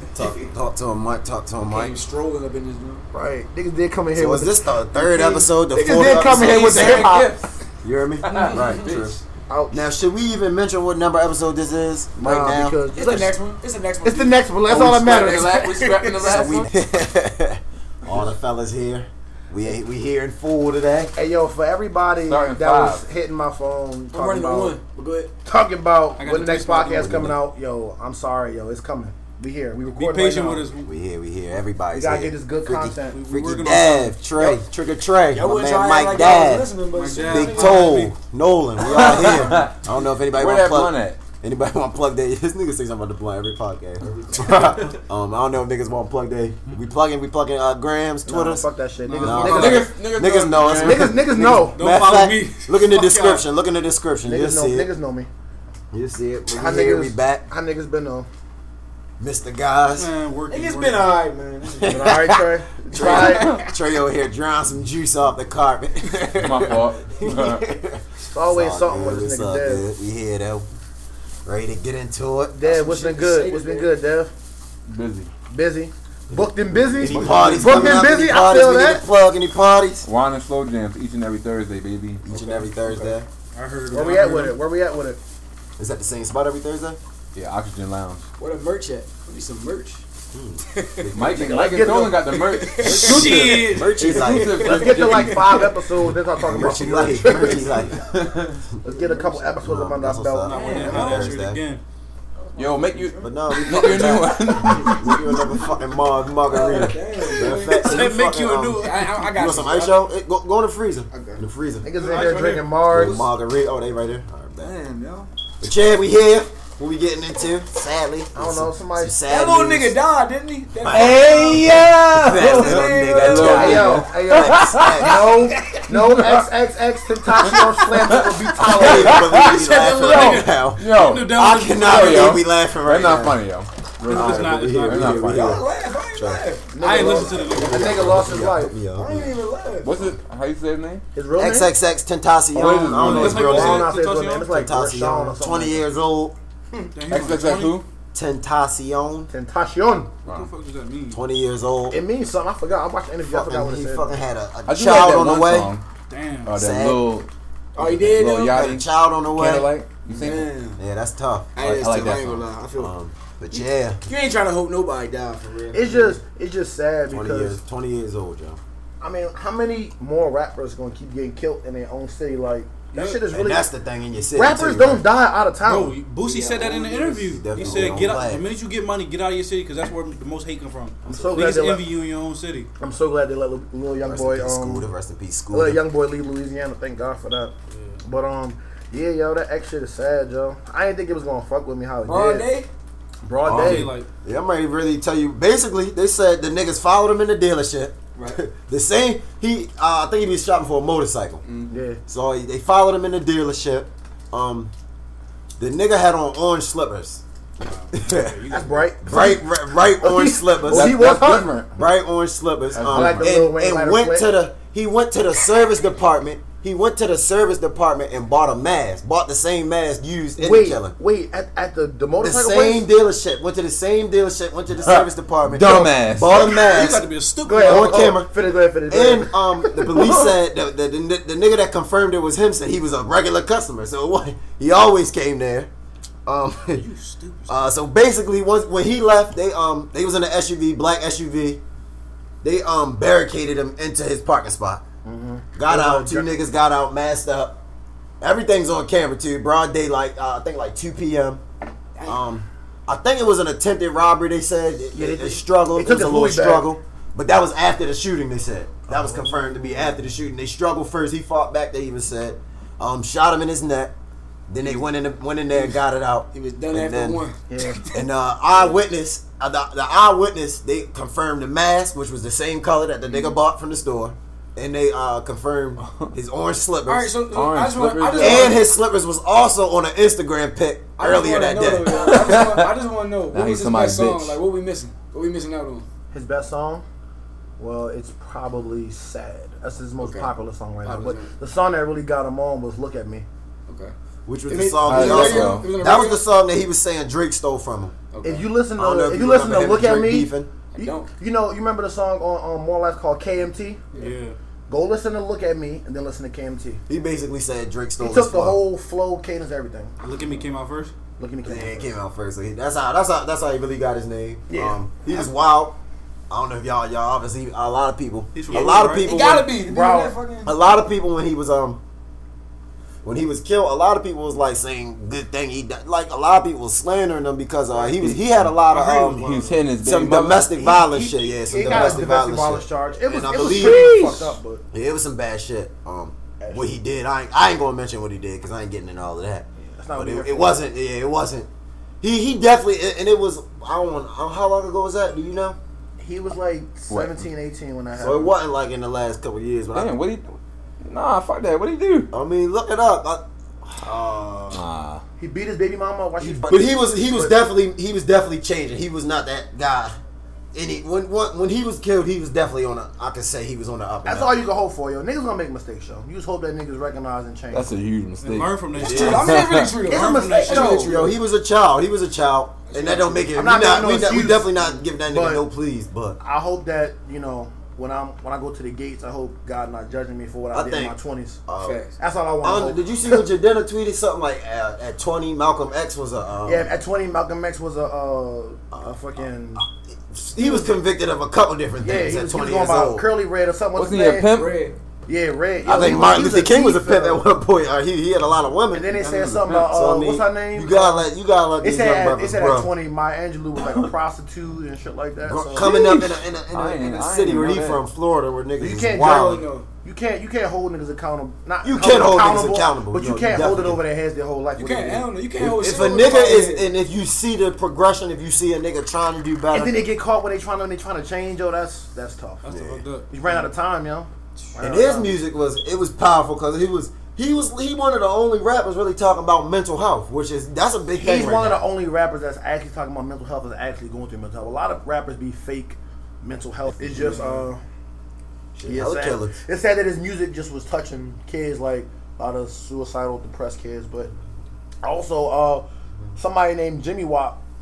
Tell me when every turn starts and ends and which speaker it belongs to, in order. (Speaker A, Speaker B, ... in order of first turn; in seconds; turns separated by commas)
Speaker A: 0.1-1.9, Speaker B: 1.7-3.0, Speaker C: 3.1-7.3, Speaker A: 4.1-7.0, Speaker D: 6.2-7.5, Speaker A: 7.8-12.8, Speaker D: 8.2-9.2, Speaker B: 8.4-8.8, Speaker C: 9.5-9.8, Speaker C: 12.2-13.4, Speaker B: 12.9-14.6, Speaker C: 14.0-15.7, Speaker D: 14.7-16.7, Speaker B: 15.2-16.6, Speaker A: 16.2-21.1, Speaker C: 21.1-24.8, Speaker D: 22.2-23.0, Speaker B: 24.1-25.3, Speaker C: 25.4-30.7, Speaker E: 26.2-27.3, Speaker A: 26.9-27.4, Speaker E: 29.9-30.9, Speaker A: 30.8-36.7, Speaker C: 31.9-33.2, Speaker E: 33.1-34.5, Speaker B: 35.3-38.0, Speaker E: 36.9-38.1, Speaker A: 37.2-48.6, Speaker D: 38.8-41.2, Speaker E: 44.5-44.9, Speaker C: 48.2-49.9, Speaker E: 49.0-49.9, Speaker A: 49.2-54.9, Speaker D: 49.3-51.3, Speaker C: 50.8-51.8, Speaker E: 51.8-52.6, Speaker B: 51.8-53.4, Speaker C: 54.2-55.3, Speaker A: 55.9-57.4, Speaker C: 56.5-58.3, Speaker A: 59.2-60.1, Speaker E: 59.9-61.2, Speaker B: 60.5-62.1, Speaker A: 61.8-70.7, Speaker C: 61.8-63.5, Speaker B: 63.0-63.6, Speaker D: 63.1-63.6, Speaker D: 66.3-67.7, Speaker C: 68.3-69.8, Speaker A: 71.4-72.6, Speaker C: 72.6-74.3, Speaker B: 72.6-73.9, Speaker D: 74.9-75.3, Speaker C: 75.5-79.0, Speaker A: 76.3-80.1, Speaker E: 77.1-77.6, Speaker D: 77.2-77.4, Speaker D: 80.0-82.2, Speaker A: 82.2-83.3, Speaker B: 82.3-83.2, Speaker E: 83.5-84.5, Speaker C: 83.9-85.2, Speaker A: 85.8-87.0, Speaker D: 87.3-88.2, Speaker B: 88.4-90.0, Speaker A: 90.3-91.5, Speaker B: 90.7-91.1, Speaker D: 91.1-95.5, Speaker C: 91.3-92.3, Speaker B: 92.2-95.8, Speaker A: 92.8-94.9, Speaker E: 92.9-94.0, Speaker C: 94.6-97.7, Speaker A: 96.4-98.0, Speaker B: 96.6-97.9, Speaker D: 97.9-98.7, Speaker C: 98.8-101.2, Speaker B: 98.8-99.5, Speaker A: 99.6-101.6, Speaker E: 100.4-101.8, Speaker B: 100.5-101.2, Speaker B: 102.4-105.8, Speaker D: 102.5-105.4, Speaker A: 103.2-111.8, Speaker B: 106.4-108.0, Speaker E: 107.4-109.3, Speaker B: 108.8-110.0, Speaker B: 111.1-111.4, Speaker C: 111.8-113.3, Speaker E: 112.0-112.7, Speaker A: 112.9-114.8, Speaker B: 114.6-115.3, Speaker A: 115.6-120.0, Speaker C: 118.3-119.2, Speaker B: 119.3-123.9, Speaker A: 120.8-125.1, Speaker D: 120.9-125.3, Speaker C: 123.1-129.3, Speaker D: 125.9-126.4, Speaker D: 127.3-135.6, Speaker A: 128.6-133.4, Speaker B: 129.4-130.5, Speaker E: 129.6-132.3, Speaker E: 134.1-135.3, Speaker A: 134.1-136.4, Speaker B: 135.2-137.4, Speaker C: 136.7-138.8, Speaker E: 136.8-138.0, Speaker A: 137.0-139.3, Speaker B: 138.9-140.1, Speaker D: 139.8-141.0, Speaker C: 141.1-141.7, Speaker A: 141.4-143.9, Speaker C: 142.5-145.8, Speaker D: 142.6-143.4, Speaker E: 142.6-144.6, Speaker A: 144.5-146.3, Speaker E: 146.9-147.8, Speaker D: 147.1-147.8, Speaker A: 148.1-149.3, Speaker C: 149.3-150.1, Speaker E: 150.2-151.2, Speaker A: 151.1-152.0, Speaker C: 151.9-154.2, Speaker A: 153.3-155.7, Speaker D: 154.7-155.8, Speaker E: 156.1-156.5, Speaker D: 156.4-160.6, Speaker A: 156.5-157.0, Speaker B: 157.8-158.6, Speaker A: 158.4-159.7, Speaker B: 160.1-160.8, Speaker A: 160.8-161.6, Speaker B: 161.6-162.9, Speaker D: 161.6-162.5, Speaker A: 162.8-164.0, Speaker B: 163.5-166.2, Speaker C: 165.7-167.6, Speaker A: 167.1-168.6, Speaker C: 169.0-173.7, Speaker A: 173.3-175.0, Speaker C: 174.3-176.0, Speaker E: 175.6-182.7, Speaker B: 176.2-178.3, Speaker A: 177.2-178.5, Speaker A: 181.0-181.5, Speaker C: 181.1-181.9, Speaker C: 182.8-184.9, Speaker A: 184.0-185.8, Speaker C: 185.5-187.5, Speaker E: 187.7-188.0, Speaker C: 188.0-192.5, Speaker B: 192.0-192.7, Speaker C: 193.2-194.0, Speaker A: 193.4-201.4, Speaker E: 193.4-194.1, Speaker B: 198.2-198.4, Speaker B: 201.4-201.7, Speaker C: 201.7-202.0, Speaker A: 202.1-204.7, Speaker A: 205.6-207.2, Speaker E: 207.6-208.9, Speaker A: 207.9-208.4, Speaker C: 208.5-209.4, Speaker A: 209.0-220.9, Speaker C: 210.0-211.6, Speaker D: 210.7-211.7, Speaker D: 212.7-213.3, Speaker C: 212.8-214.3, Speaker C: 220.4-222.9, Speaker A: 222.2-227.1, Speaker D: 224.8-226.6, Speaker E: 226.3-228.1, Speaker C: 227.4-230.3, Speaker A: 227.6-228.3, Speaker A: 228.9-235.7, Speaker A: 236.2-236.8, Speaker E: 236.7-237.7, Speaker A: 237.5-241.6, Speaker A: 242.4-244.8, Speaker C: 245.0-246.3, Speaker A: 245.5-247.6, Speaker A: 248.2-251.4, Speaker A: 252.0-263.9, Speaker C: 254.9-256.7, Speaker C: 258.9-259.8, Speaker A: 264.5-267.2, Speaker B: 265.5-265.8, Speaker B: 266.3-268.0, Speaker C: 267.5-267.8, Speaker A: 267.9-277.2, Speaker B: 273.1-273.3, Speaker D: 275.8-276.1, Speaker B: 276.9-278.6, Speaker D: 277.3-278.6, Speaker A: 278.1-282.6, Speaker B: 281.0-285.8, Speaker D: 281.9-282.8, Speaker D: 283.3-284.4, Speaker C: 286.1-286.8, Speaker C: 287.6-293.2, Speaker B: 290.0-290.3, Speaker B: 290.8-291.3, Speaker B: 293.7-293.9, Speaker A: 294.2-297.9, Speaker B: 294.5-296.2, Speaker D: 294.8-295.8, Speaker B: 298.1-298.5, Speaker C: 298.2-303.8, Speaker A: 298.8-300.5, Speaker B: 300.7-301.1, Speaker E: 303.9-304.4, Speaker C: 304.7-306.8, Speaker A: 306.9-308.6, Speaker C: 308.0-309.9, Speaker E: 310.0-310.9, Speaker C: 311.2-311.9, Speaker A: 311.4-315.8, Speaker C: 314.5-315.2, Speaker A: 316.3-319.5, Speaker E: 318.3-319.4, Speaker B: 319.0-320.6, Speaker C: 319.6-320.1, Speaker A: 320.4-321.8, Speaker A: 323.0-334.2, Speaker E: 328.7-329.3, Speaker D: 329.1-330.6, Speaker C: 330.6-334.6, Speaker A: 334.7-341.5, Speaker C: 336.4-336.7, Speaker C: 339.6-340.6, Speaker A: 342.0-345.6, Speaker C: 346.0-348.4, Speaker D: 346.9-347.2, Speaker A: 348.0-349.9, Speaker D: 349.7-352.1, Speaker A: 352.1-354.6, Speaker D: 354.5-355.0, Speaker C: 355.2-357.4, Speaker A: 356.2-359.9, Speaker A: 360.5-364.4, Speaker C: 364.0-367.7, Speaker D: 367.5-369.8, Speaker E: 368.2-370.9, Speaker A: 368.8-369.4, Speaker B: 368.8-371.1, Speaker C: 369.9-371.0, Speaker A: 370.8-376.2, Speaker B: 372.7-373.3, Speaker C: 373.3-375.4, Speaker C: 376.2-381.4, Speaker A: 380.5-380.9, Speaker A: 381.5-381.8, Speaker B: 381.6-381.9, Speaker C: 382.0-383.2, Speaker A: 382.4-386.7, Speaker C: 386.4-389.6, Speaker A: 390.1-393.0, Speaker C: 390.4-390.8, Speaker C: 391.8-394.3, Speaker D: 393.7-394.6, Speaker B: 394.3-394.8, Speaker C: 395.1-397.2, Speaker A: 395.6-402.7, Speaker C: 398.7-401.1, Speaker D: 399.0-399.5, Speaker C: 401.6-405.8, Speaker A: 405.2-409.4, Speaker D: 405.6-407.8, Speaker C: 408.6-415.1, Speaker B: 409.0-409.6, Speaker A: 411.6-413.8, Speaker B: 414.6-416.7, Speaker A: 415.4-419.8, Speaker C: 419.5-422.4, Speaker E: 422.4-423.1, Speaker A: 422.5-422.8, Speaker C: 423.1-425.2, Speaker A: 424.6-431.6, Speaker C: 431.0-437.6, Speaker A: 438.5-439.4, Speaker C: 438.7-444.1, Speaker C: 444.8-447.4